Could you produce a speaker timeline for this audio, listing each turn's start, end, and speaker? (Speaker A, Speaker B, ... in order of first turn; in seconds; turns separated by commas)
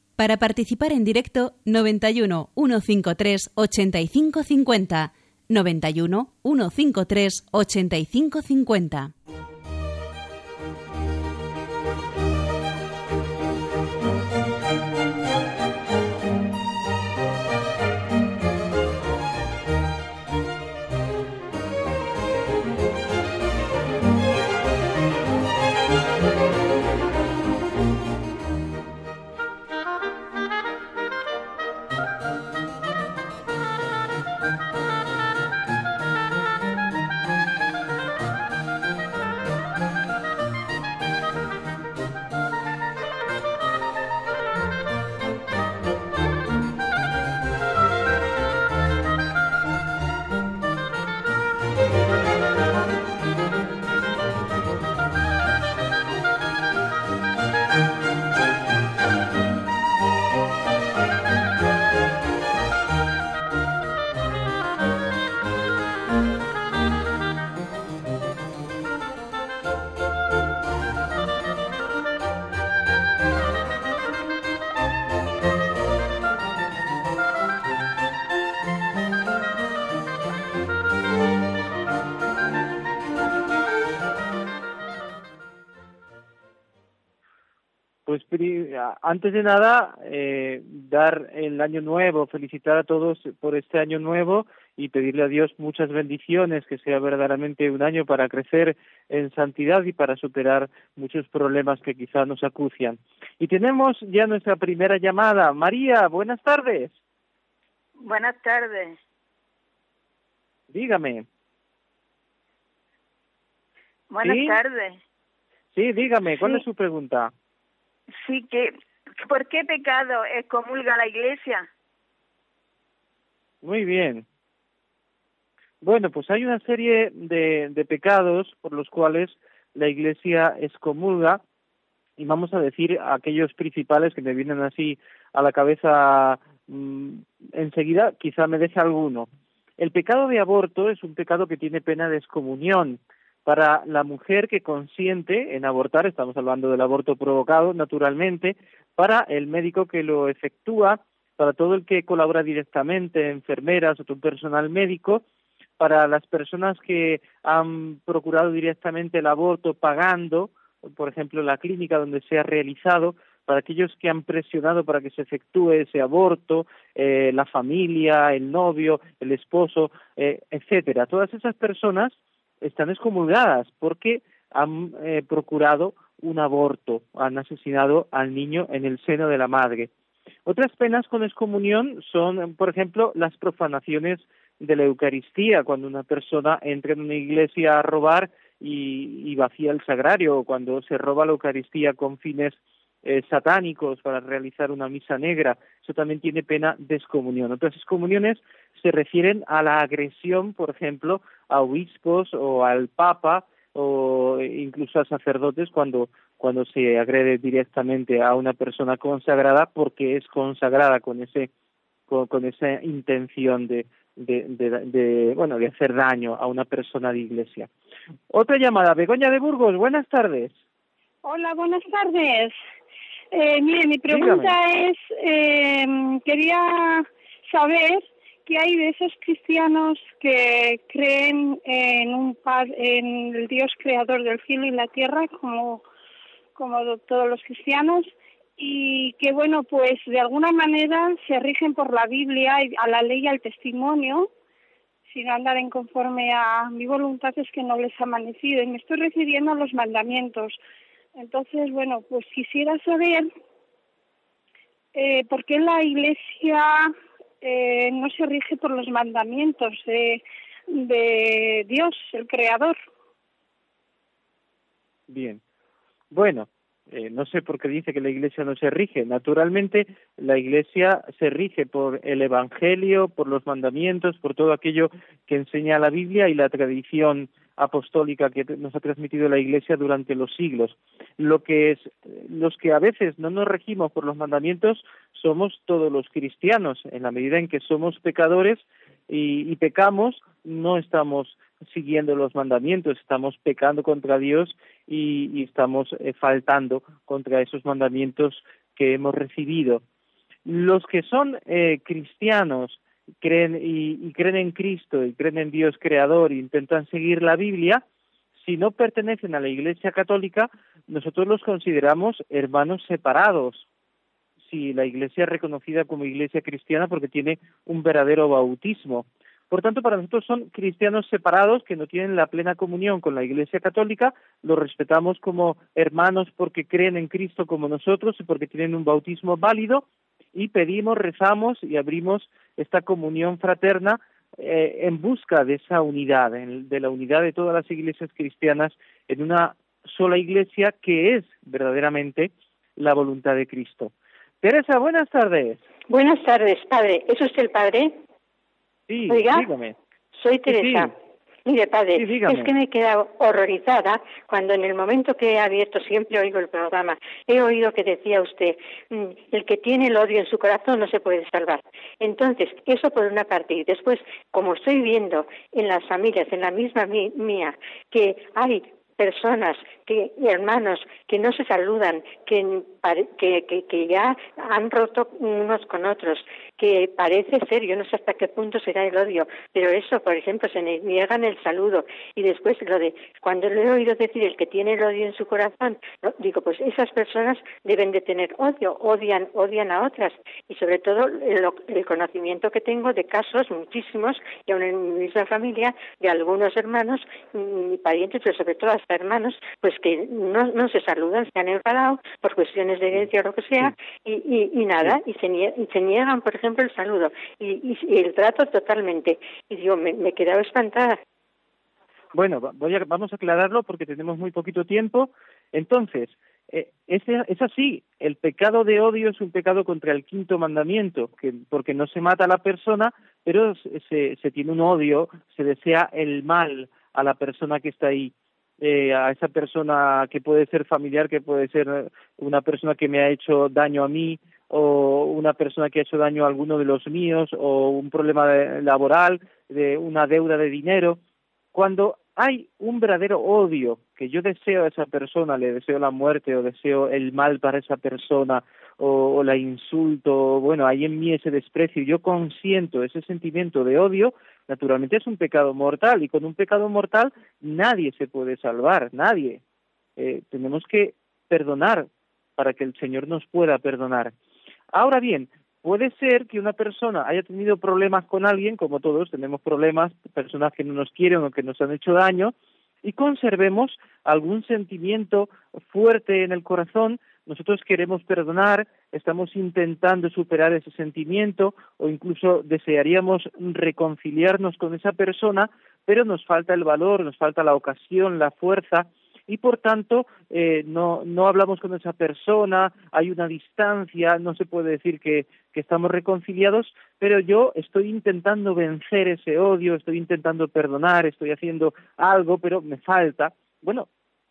Speaker A: 0.2-9.1, Speaker B: 88.1-106.9, Speaker C: 108.0-109.0, Speaker B: 110.7-111.2, Speaker C: 114.1-115.0, Speaker B: 114.2-114.6, Speaker B: 115.7-117.3, Speaker C: 118.2-121.7, Speaker B: 123.6-124.2, Speaker B: 125.8-131.4, Speaker B: 132.2-155.2, Speaker B: 155.8-179.9, Speaker B: 180.4-211.5, Speaker B: 212.1-217.7, Speaker B: 218.3-220.5, Speaker D: 221.2-222.6, Speaker D: 223.3-235.8, Speaker B: 224.1-224.5, Speaker D: 236.6-244.3, Speaker D: 245.1-250.6, Speaker D: 251.1-253.3, Speaker D: 254.9-260.2, Speaker D: 260.7-262.8, Speaker B: 265.1-265.4, Speaker B: 266.1-299.8, Speaker B: 300.4-307.8, Speaker B: 308.4-313.6, Speaker B: 314.4-345.6, Speaker E: 345.9-347.9, Speaker B: 348.9-349.8, Speaker E: 349.1-349.5, Speaker E: 350.1-350.9, Speaker B: 350.5-350.9, Speaker E: 351.4-411.0, Speaker B: 351.9-352.5, Speaker B: 412.1-441.0, Speaker B: 441.5-459.4, Speaker B: 460.0-464.1, Speaker B: 464.7-503.9